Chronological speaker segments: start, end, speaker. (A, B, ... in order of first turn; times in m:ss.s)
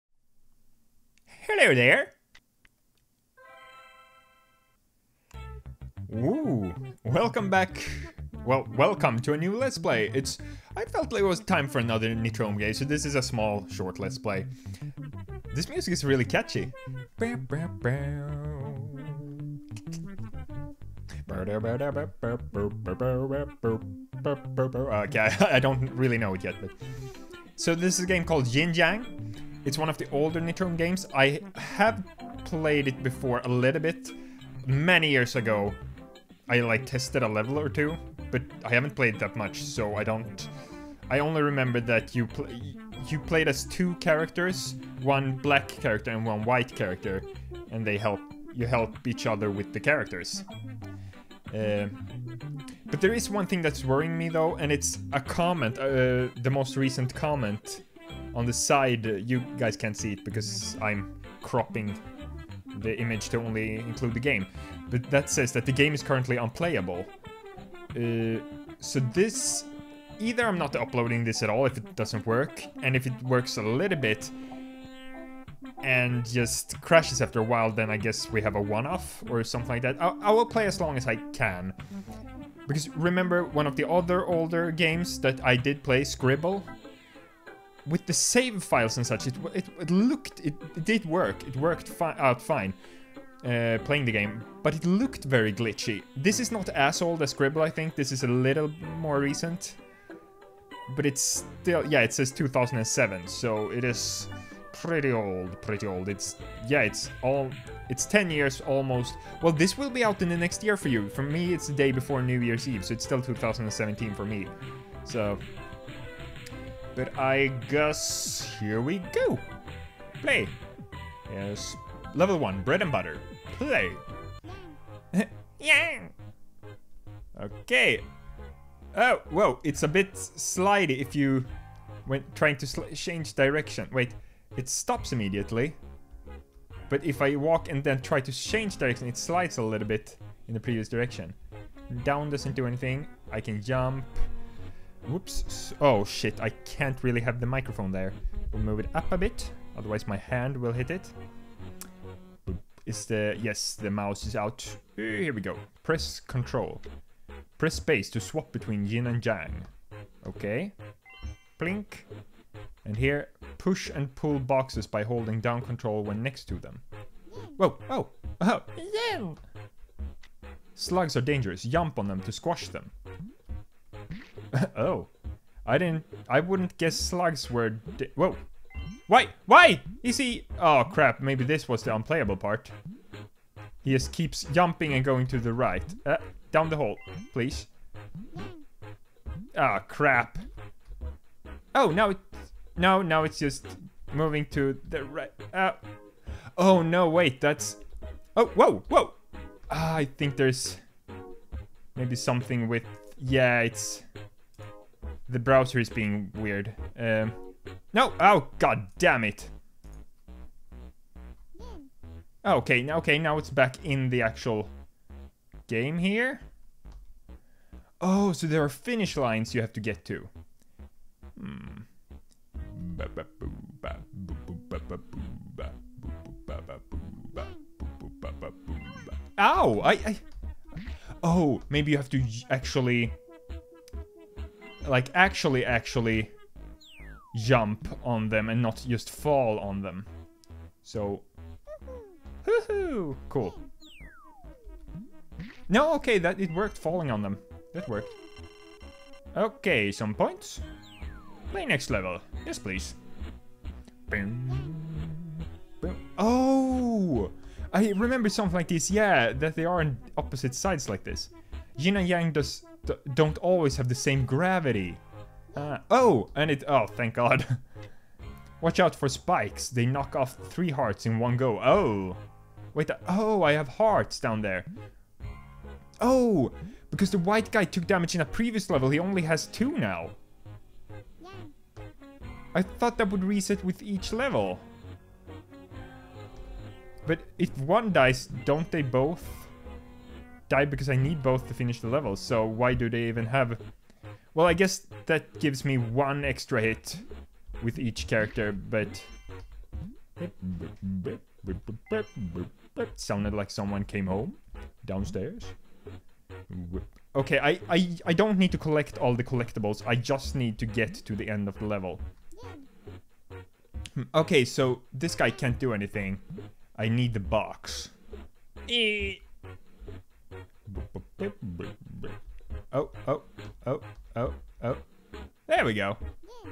0:01.3-0:02.1 A
0:06.1-0:14.5 A
0:15.5-0:19.6 A
0:21.2-0:26.7 A
0:27.6-0:35.8 A
0:36.5-0:40.5 A
0:41.1-0:50.4 A
0:51.5-0:52.0 A
0:52.9-1:02.0 A
1:02.7-1:07.1 A
1:07.9-1:14.3 A
1:15.8-1:21.8 A
1:22.7-1:26.7 A
1:27.8-1:32.8 A
1:33.4-1:39.8 A
1:40.9-1:54.5 A
1:55.0-1:55.4 A
1:56.9-1:59.4 A
2:00.2-2:00.6 A
2:01.3-2:04.0 A
2:05.1-2:06.1 A
2:07.4-2:08.1 A
2:08.9-2:11.5 A
2:12.0-2:15.8 A
2:16.9-2:21.4 A
2:21.9-2:24.3 A
2:25.0-2:31.1 A
2:32.4-2:36.8 A
2:37.6-2:39.7 A
2:40.2-2:40.7 A
2:41.6-2:42.1 A
2:42.8-2:46.8 A
2:47.6-2:49.4 A
2:50.7-2:52.9 A
2:54.5-2:55.1 A
2:55.6-2:58.4 A
2:59.1-3:02.7 A
3:03.8-3:07.7 A
3:09.5-3:10.5 A
3:11.7-3:15.8 A
3:16.6-3:17.8 A
3:18.3-3:19.2 A
3:19.7-3:20.8 A
3:21.9-3:24.0 A
3:25.3-3:27.4 A
3:27.9-3:29.5 A
3:32.4-3:34.7 A
3:35.7-3:36.5 A
3:38.0-3:40.3 A
3:41.4-3:41.9 A
3:42.7-3:50.2 A
3:51.2-3:53.2 A
3:54.8-3:56.3 A
3:57.3-4:00.1 A
4:00.8-4:01.3 A
4:02.4-4:03.6 A
4:05.7-4:08.1 A
4:09.3-4:10.6 A
4:11.5-4:13.0 A
4:14.1-4:27.6 A
4:28.6-4:32.2 A
4:32.7-4:34.7 A
4:36.0-4:40.2 A
4:42.5-4:44.6 A
4:47.0-4:49.5 A
4:50.5-4:53.6 A
4:54.3-4:57.0 A
4:57.6-4:59.1 A
5:00.2-5:05.6 A
5:06.5-5:12.0 A
5:13.9-5:16.2 A
5:16.8-5:17.9 A
5:18.7-5:19.2 A
5:20.7-5:22.1 A
5:22.7-5:24.8 A
5:25.5-5:26.0 A